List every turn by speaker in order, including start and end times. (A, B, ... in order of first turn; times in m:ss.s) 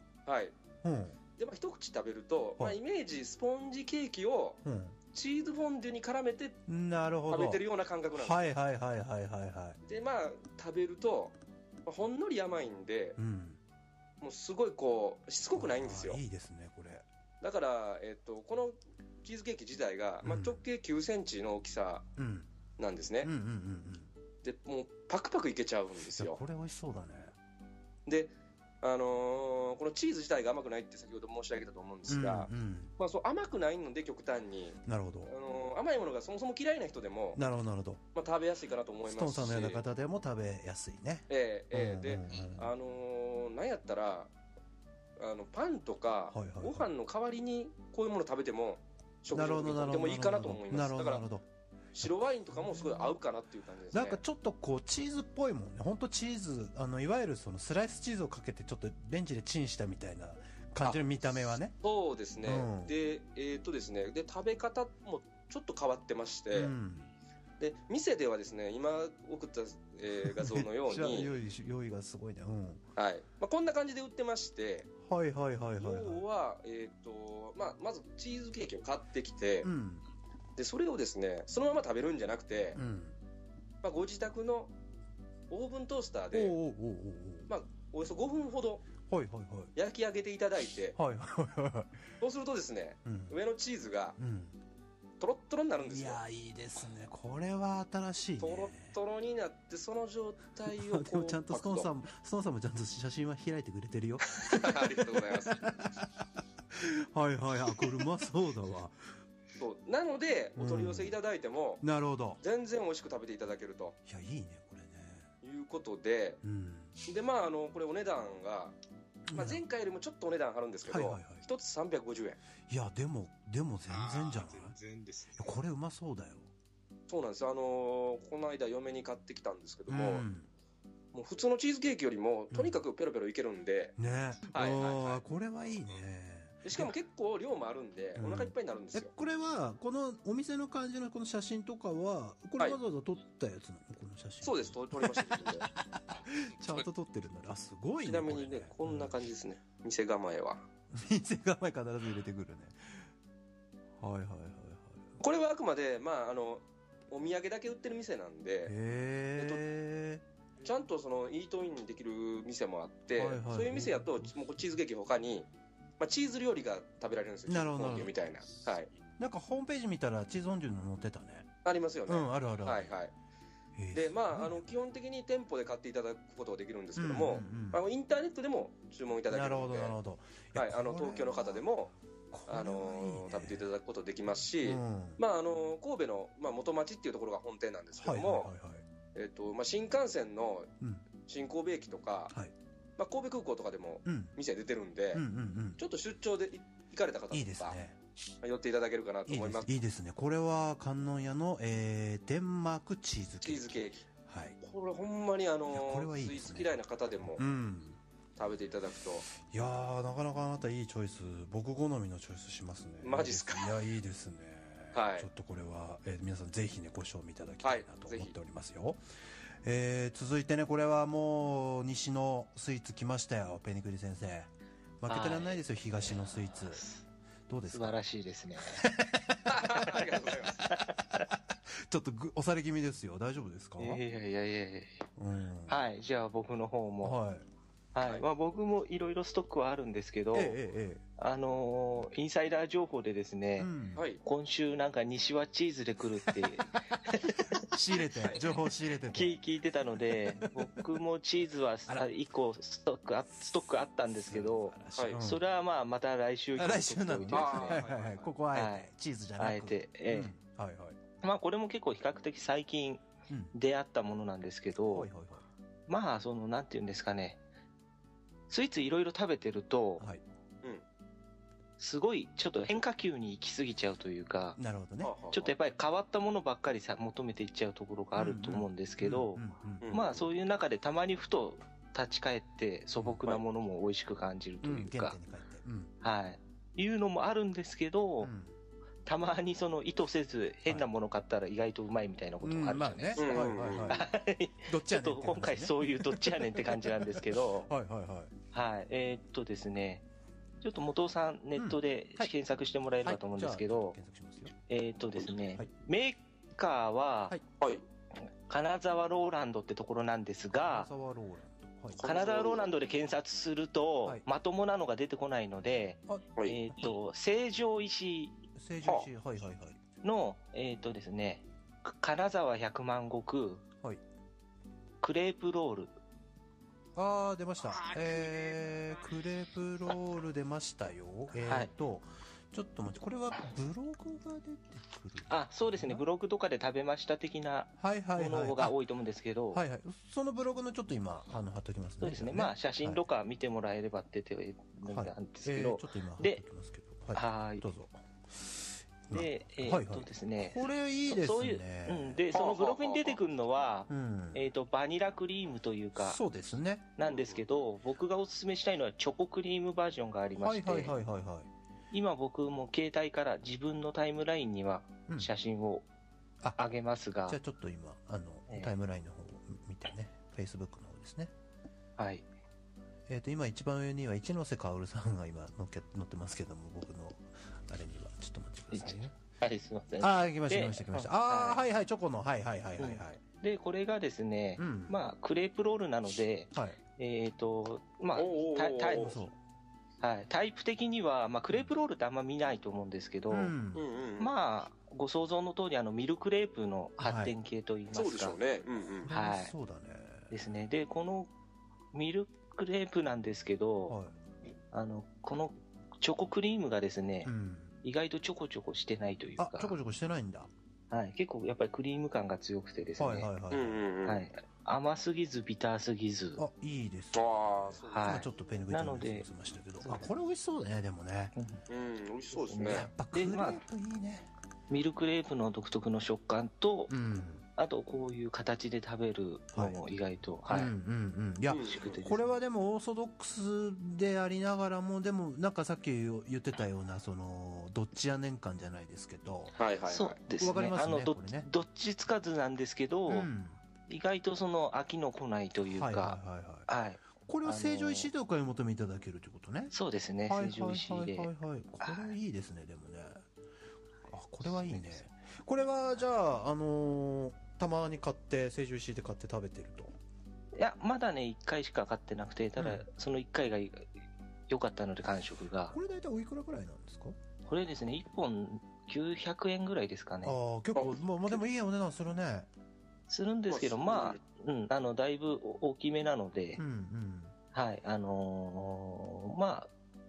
0:00.2-0:00.5 A
0:00.8-0:01.2 B
0:01.4-0:04.6 A
0:04.6-0:05.0 B
0:05.1-0:06.6 A
0:06.7-0:07.6 B
0:07.3-0:08.4 A
0:08.1-0:09.8 B
0:09.8-0:11.3 A
0:11.8-0:13.2 A
0:13.2-0:13.6 B
0:14.2-0:16.2 A
0:15.6-0:17.0 B
0:17.4-0:22.0 A
0:20.2-0:20.6 B
0:22.2-0:22.5 B
0:22.8-0:23.3 A
0:23.2-0:24.1 B
0:24.4-0:26.4 A
0:26.1-0:27.3 B
0:28.0-0:37.4 A
0:32.1-0:32.9 B
0:34.8-0:35.3 B
0:37.3-0:38.0 B
0:38.1-0:39.8 A
0:39.1-0:42.7 B
0:41.3-0:44.3 A
0:45.2-0:51.2 A
0:46.3-0:46.9 B
0:49.3-0:51.4 B
0:52.0-0:54.2 A
0:52.0-0:53.2 B
0:53.9-1:01.7 B
1:00.8-1:06.7 A
1:02.4-1:02.9 B
1:06.5-1:07.1 B
1:07.6-1:11.3 A
1:10.2-1:12.8 B
1:13.0-1:14.9 A
1:15.0-1:16.2 B
1:15.8-1:19.7 A
1:19.6-1:20.0 B
1:20.6-1:22.8 A
1:22.7-1:23.2 B
1:23.8-1:24.7 A
1:25.5-1:26.6 A
1:26.3-1:27.5 B
1:27.5-1:28.8 A
1:29.1-1:29.7 B
1:29.8-1:31.0 A
1:30.9-1:32.0 B
1:32.2-1:34.2 A
1:33.0-1:33.4 B
1:34.2-1:34.6 B
1:35.2-1:36.2 A
1:35.8-1:39.0 B
1:38.4-1:41.9 A
1:40.7-1:46.0 B
1:44.4-1:45.7 A
1:46.7-1:49.0 B
1:49.6-1:51.8 A
1:50.6-1:51.2 B
1:51.8-1:52.4 B
1:52.4-1:54.0 A
1:54.0-1:55.3 B
1:55.4-1:56.4 A
1:56.4-1:56.9 B
1:57.1-1:58.7 A
1:59.3-1:59.6 B
1:59.3-2:02.4 A
2:00.9-2:01.4 B
2:02.7-2:04.8 B
2:03.9-2:05.5 C
2:05.4-2:06.5 B
2:07.1-2:10.3 A
2:09.9-2:10.5 B
2:11.1-2:13.9 A
2:12.5-2:12.8 B
2:14.0-2:16.9 B
2:14.5-2:15.2 A
2:16.6-2:19.1 A
2:18.2-2:29.1 B
2:24.4-2:25.7 A
2:28.0-2:30.6 A
2:30.9-2:33.1 B
2:34.0-2:35.2 B
2:35.2-2:38.7 A
2:38.6-2:40.2 B
2:39.4-2:39.6 A
2:40.6-2:45.5 A
2:43.2-2:44.3 B
2:46.0-2:48.9 A
2:47.5-2:48.2 B
2:49.2-2:51.5 B
2:51.6-2:53.1 A
2:52.1-2:52.9 B
2:53.8-2:54.7 B
2:53.9-3:00.0 A
2:57.0-2:57.8 B
2:59.3-3:01.7 B
3:00.5-3:01.9 A
3:02.3-3:03.7 B
3:02.5-3:08.5 A
3:04.6-3:05.2 B
3:08.0-3:08.8 B
3:09.1-3:10.7 A
3:10.8-3:11.0 B
3:11.3-3:12.3 A
3:13.0-3:15.2 A
3:14.0-3:14.3 B
3:15.1-3:15.8 B
3:15.8-3:17.8 A
3:17.3-3:18.0 B
3:18.4-3:19.7 A
3:19.3-3:24.6 B
3:23.4-3:24.0 A
3:24.6-3:27.4 A
3:25.7-3:26.8 B
3:27.3-3:28.0 B
3:28.4-3:29.3 A
3:29.4-3:39.0 B
3:33.0-3:33.9 A
3:34.9-3:35.3 A
3:37.6-3:38.3 A
3:39.6-3:46.8 B
3:45.1-3:45.6 D
3:46.7-3:47.0 D
3:47.5-3:48.0 B
3:47.6-3:48.9 D
3:48.7-3:49.4 B
3:49.5-3:50.7 A
3:50.7-3:51.2 D
3:51.3-3:54.0 B
3:53.8-3:55.0 D
3:55.2-3:55.8 B
3:55.7-3:57.2 D
3:57.0-3:57.4 B
3:57.9-4:00.6 D
4:00.3-4:01.0 B
4:01.2-4:07.4 D
4:03.6-4:04.0 B
4:03.9-4:04.2 A
4:07.6-4:09.4 B
4:09.1-4:17.9 D
4:10.3-4:10.6 B
4:13.6-4:15.4 B
4:15.0-4:15.2 A
4:16.6-4:21.0 B
4:17.3-4:18.3 A
4:18.5-4:20.3 D
4:21.2-4:25.1 D
4:23.3-4:23.5 B
4:24.8-4:25.4 B
4:25.9-4:27.4 D
4:28.5-4:30.1 D
4:31.8-4:34.6 D
4:34.6-4:35.2 B
4:35.0-4:35.5 A
4:35.3-4:45.2 D
4:38.2-4:40.2 B
4:43.0-4:43.2 B
4:44.6-4:45.9 B
4:46.0-4:48.3 D
4:48.2-4:48.6 B
4:49.0-4:57.7 D
4:52.4-4:54.1 B
4:53.2-4:54.0 A
4:54.6-4:58.3 B
4:58.5-5:00.0 D
5:00.6-5:04.0 D
5:01.6-5:02.3 B
5:03.0-5:04.5 B
5:04.7-5:07.4 D
5:08.5-5:10.9 D
5:10.5-5:12.0 B
5:12.0-5:12.7 A
5:12.0-5:18.4 D
5:18.6-5:19.8 B
5:20.0-5:23.6 D
5:25.0-5:25.9 D
5:27.0-5:36.0 B
5:27.6-5:29.1 C
5:31.3-5:31.7 D
5:35.3-5:39.6 D
5:37.8-5:38.8 B
5:39.5-5:43.0 B
5:42.0-5:46.4 D
5:44.9-5:52.2 B
5:47.1-5:47.6 D
5:49.1-5:56.2 D
5:52.3-5:53.2 A
5:53.9-5:54.5 B
5:56.0-5:56.9 B
5:57.0-6:01.0 D
5:57.0-5:57.4 A
6:00.4-6:01.5 B
6:01.9-6:05.8 D
6:06.6-6:07.4 D
6:07.2-6:11.3 B
6:12.0-6:12.2 D
6:13.1-6:19.1 B
6:18.7-6:21.6 D
6:20.0-6:23.2 B
6:22.8-6:29.2 D
6:24.6-6:24.9 B
6:26.5-6:26.8 B
6:28.1-6:29.2 A
6:28.9-6:29.4 B
6:30.0-6:33.5 D
6:33.3-6:33.8 B
6:33.7-6:34.3 A
6:34.2-6:38.4 D
6:37.0-6:37.3 B
6:37.9-6:39.1 A
6:39.0-6:40.3 B
6:39.1-6:39.5 D
6:40.3-6:41.3 D
6:41.9-6:44.0 D
6:43.8-6:44.1 B
6:44.7-6:47.3 D
6:47.2-6:47.8 B
6:47.8-6:49.8 D
6:49.4-6:50.5 B
6:50.9-6:53.3 D
6:53.0-6:53.9 B
6:53.5-6:54.3 A
6:54.0-6:56.4 D
6:56.4-7:01.3 B
6:57.1-6:58.3 A
6:57.9-6:59.3 D
6:59.8-7:00.1 D
7:01.3-7:01.6 D
7:01.7-7:02.9 A
7:02.4-7:03.6 D
7:02.6-7:04.3 B
7:04.7-7:07.0 D
7:06.9-7:07.4 B
7:07.5-7:10.7 D
7:09.5-7:09.8 B
7:10.5-7:19.6 B
7:11.5-7:11.9 A
7:11.6-7:12.4 D
7:19.5-7:20.2 A
7:19.9-7:23.3 D
7:20.3-7:21.5 B
7:23.1-7:23.6 B
7:23.9-7:28.1 D
7:25.6-7:26.7 B
7:27.2-7:29.7 B
7:29.7-7:32.2 D
7:30.3-7:33.2 B
7:34.1-7:39.9 B
7:34.4-7:35.1 D
7:40.5-7:43.9 D
7:42.6-7:42.8 B
7:44.5-7:45.8 D
7:45.7-7:47.1 B
7:47.5-7:50.4 D
7:50.2-7:52.5 B
7:50.7-7:51.4 A
7:53.1-7:56.6 D
7:53.5-7:54.2 A
7:56.6-7:57.3 B
7:57.5-7:59.7 D